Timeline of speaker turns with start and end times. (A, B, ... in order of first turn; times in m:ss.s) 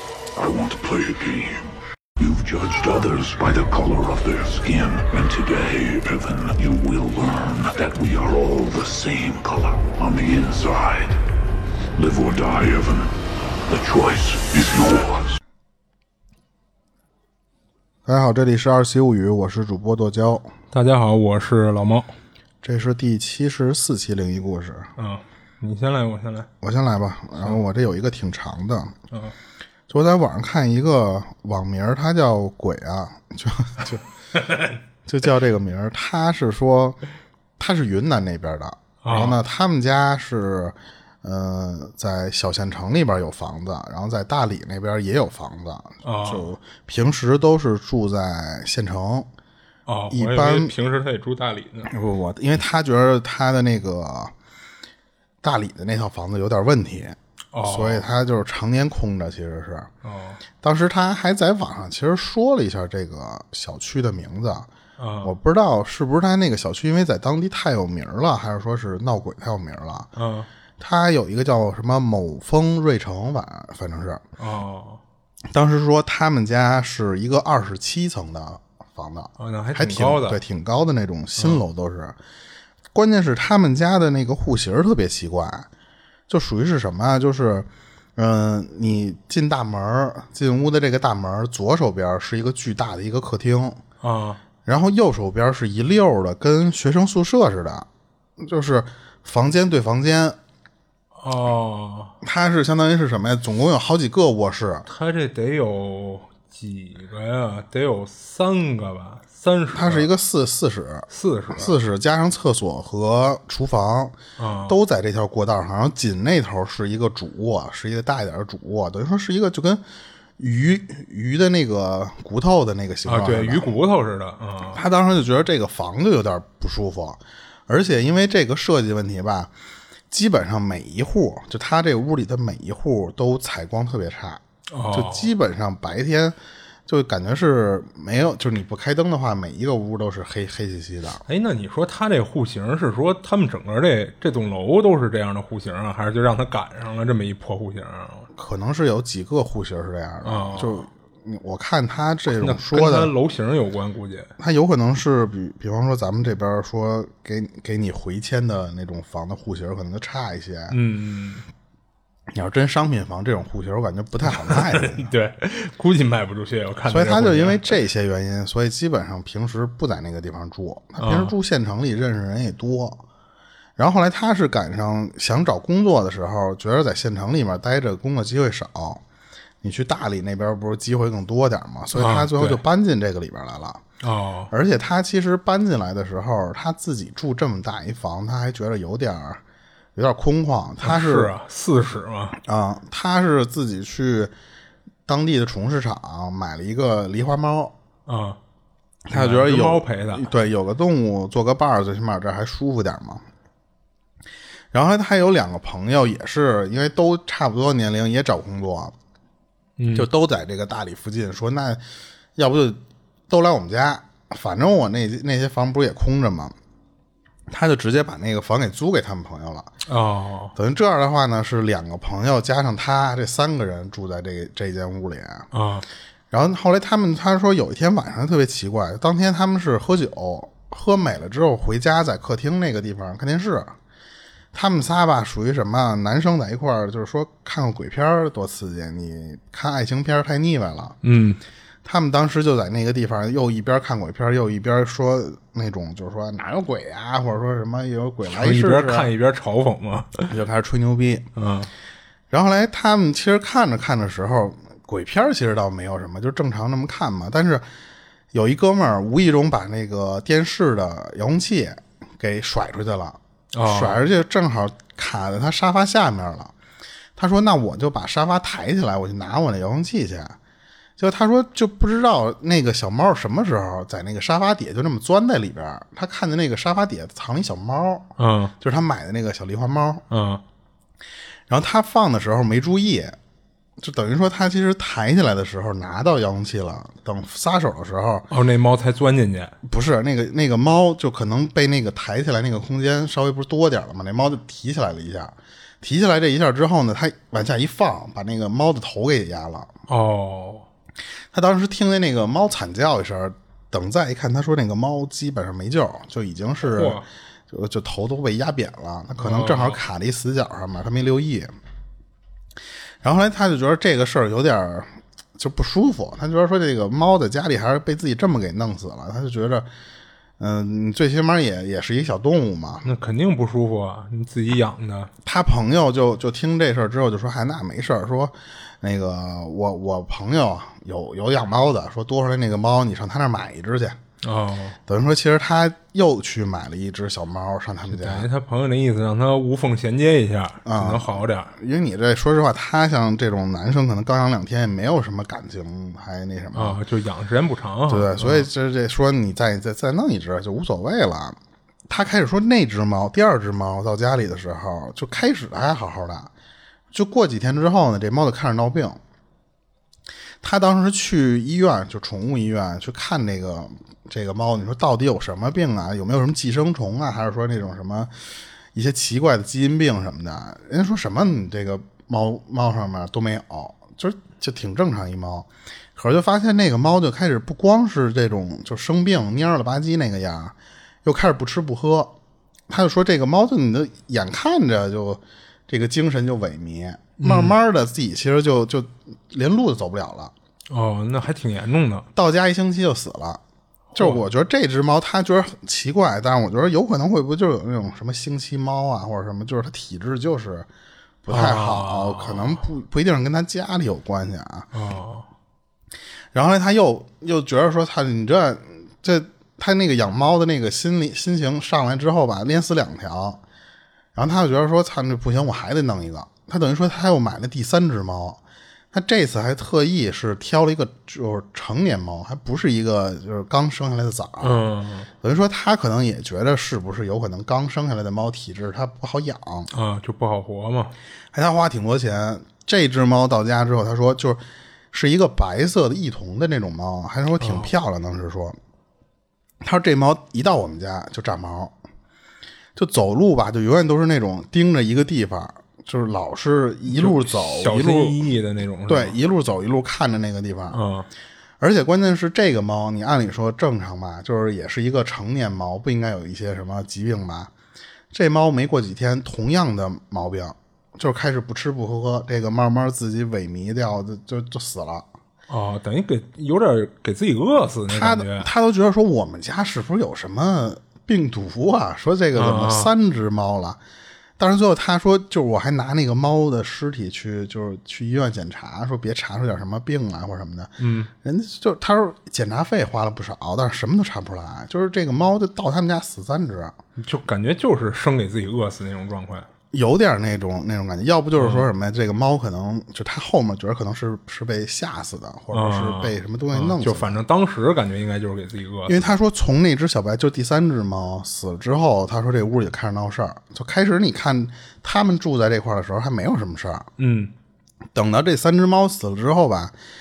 0:00.3-0:01.6 A
0:02.2-0:11.2 A
0:11.9-0:13.1 A
0:13.7-0:15.3 A
0:18.0-0:20.5 B
0:20.7-0:22.1 C
0:22.6-0:24.9 B
0:25.0-0:26.5 C
0:26.6-0:28.9 B
0:29.9-0:34.0 B
0:34.3-0:34.8 C
0:35.0-0:37.0 B
0:37.6-0:49.3 B
0:39.0-0:39.4 C
0:46.0-0:46.4 C
0:49.8-0:51.9 C
0:50.1-0:50.7 B
0:51.9-0:54.3 B
0:55.4-0:59.9 B
0:57.5-0:58.0 C
1:00.0-1:00.4 C
1:00.6-1:04.7 B
1:05.0-1:05.3 C
1:05.2-1:10.1 B
1:10.1-1:10.5 C
1:10.8-1:14.2 B
1:14.4-1:15.0 C
1:15.5-1:22.2 B
1:19.4-1:20.4 C
1:22.9-1:25.7 B
1:26.3-1:33.8 B
1:34.0-1:34.4 C
1:34.6-1:37.9 B
1:38.4-1:40.4 B
1:41.2-1:42.1 C
1:42.2-1:44.9 B
1:44.9-1:50.1 C
1:49.7-1:59.8 B
1:51.1-1:51.7 C
1:54.4-1:54.7 C
2:00.4-2:03.7 B
2:03.0-2:04.8 C
2:04.7-2:09.5 B
2:10.1-2:16.4 B
2:14.7-2:15.3 C
2:16.9-2:21.2 B
2:21.2-2:28.3 C
2:28.3-2:33.1 B
2:30.2-2:30.9 C
2:32.3-2:34.3 C
2:34.4-2:40.8 B
2:40.7-2:41.4 C
2:42.3-2:45.1 B
2:44.3-2:47.7 C
2:46.9-2:53.0 B
2:51.0-2:51.3 C
2:53.8-2:59.0 B
2:59.6-3:03.8 B
3:01.9-3:02.6 C
3:04.0-3:04.5 C
3:04.5-3:09.4 B
3:09.9-3:11.3 B
3:10.8-3:12.4 C
3:12.4-3:14.3 B
3:15.0-3:17.7 B
3:18.1-3:18.4 C
3:19.1-3:23.2 B
3:19.1-3:20.3 C
3:24.7-3:28.9 B
3:29.8-3:30.1 C
3:29.9-3:31.8 B
3:32.4-3:36.5 B
3:37.5-3:39.7 B
3:39.8-3:40.5 C
3:40.6-3:45.5 B
3:45.5-3:45.8 C
3:46.3-3:53.8 B
3:54.5-4:01.0 B
4:01.0-4:01.4 C
4:01.8-4:09.1 B
4:08.2-4:10.3 C
4:10.3-4:11.3 B
4:11.4-4:11.7 C
4:12.3-4:17.6 B
4:18.3-4:26.5 B
4:23.5-4:24.0 C
4:27.2-4:30.4 B
4:31.0-4:40.0 B
4:38.2-4:38.5 C
4:40.1-4:40.4 C
4:41.5-4:43.2 B
4:43.8-4:48.3 B
4:48.3-4:49.5 C
4:49.6-4:59.7 B
4:59.9-5:00.6 C
5:01.3-5:11.5 B
5:06.6-5:07.0 C
5:09.2-5:09.8 C
5:13.0-5:19.7 B
5:20.4-5:22.9 B
5:22.8-5:25.1 C
5:25.2-5:34.0 B
5:34.2-5:34.8 C
5:34.9-5:38.3 B
5:37.9-5:41.5 C
5:40.6-5:46.8 B
5:46.5-5:48.5 C
5:47.9-5:51.4 B
5:51.9-5:56.3 B
5:56.9-5:59.0 B
6:00.4-6:08.1 B
6:08.7-6:22.1 B
6:22.7-6:30.3 B
6:27.2-6:27.6 C
6:30.7-6:32.1 C
6:32.1-6:33.4 B
6:33.9-6:34.2 C
6:34.0-6:40.7 B
6:41.2-6:44.7 B
6:41.3-6:42.6 C
6:44.7-6:45.2 C
6:46.3-6:53.4 B
6:54.1-6:58.4 B
6:58.9-7:04.6 B
7:04.4-7:05.1 C
7:05.2-7:09.7 B
7:09.7-7:10.9 C
7:11.3-7:14.4 B
7:14.9-7:18.6 B
7:17.4-7:17.7 C
7:19.6-7:21.7 B
7:22.8-7:28.2 B
7:26.9-7:29.2 C
7:28.9-7:30.8 B
7:30.7-7:31.1 C
7:31.6-7:37.5 B
7:38.1-7:45.1 B
7:45.5-7:48.5 C
7:47.9-7:53.8 B
7:52.3-7:52.9 C
7:54.4-8:06.8 B
8:00.8-8:01.1 C
8:07.0-8:09.5 C
8:09.7-8:17.2 B
8:11.4-8:11.7 C
8:15.5-8:19.1 C
8:18.9-8:26.9 B
8:27.0-8:27.3 C
8:27.9-8:29.7 B